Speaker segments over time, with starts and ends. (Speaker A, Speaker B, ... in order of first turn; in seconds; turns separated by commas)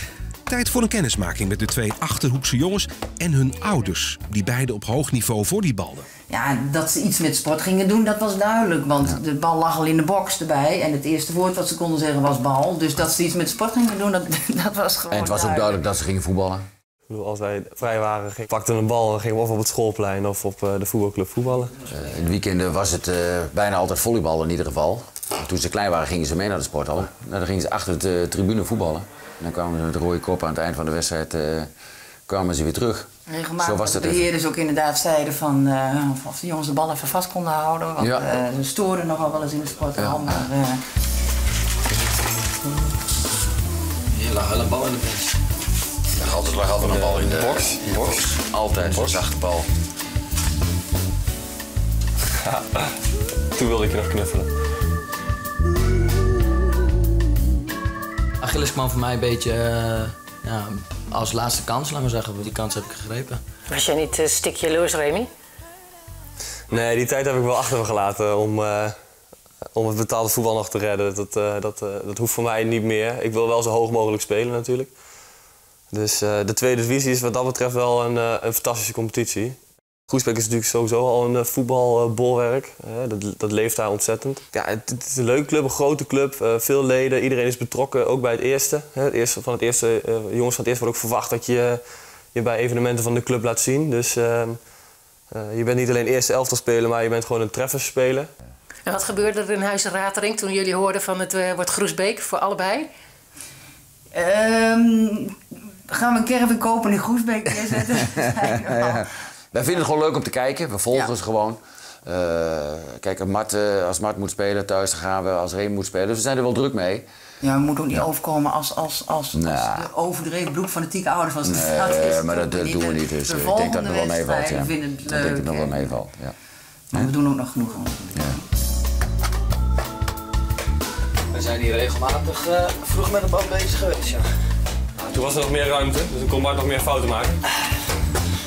Speaker A: 0.5-6.0, Speaker B: 6.3-15.8, Speaker C: 15.1-16.6, Speaker D: 17.1-21.7, Speaker C: 21.9-31.7, Speaker C: 32.3-34.3, Speaker B: 33.3-40.8, Speaker C: 38.0-38.3, Speaker C: 40.0-40.4, Speaker E: 44.1-45.3, Speaker C: 46.2-49.7, Speaker D: 46.7-49.2, Speaker D: 52.5-52.8, Speaker D: 53.5-54.5, Speaker E: 58.4-63.4, Speaker F: 63.7-65.3, Speaker D: 66.7-68.9, Speaker D: 69.7-74.9, Speaker D: 75.9-79.6, Speaker D: 80.1-91.8, Speaker D: 92.3-94.6, Speaker D: 95.3-98.3, Speaker F: 98.8-102.9, Speaker B: 104.1-105.3, Speaker B: 105.9-109.0, Speaker C: 108.5-117.0, Speaker B: 117.4-125.9, Speaker C: 119.3-119.9, Speaker C: 121.4-126.3, Speaker B: 126.9-128.4, Speaker E: 131.3-134.3, Speaker D: 135.0-137.4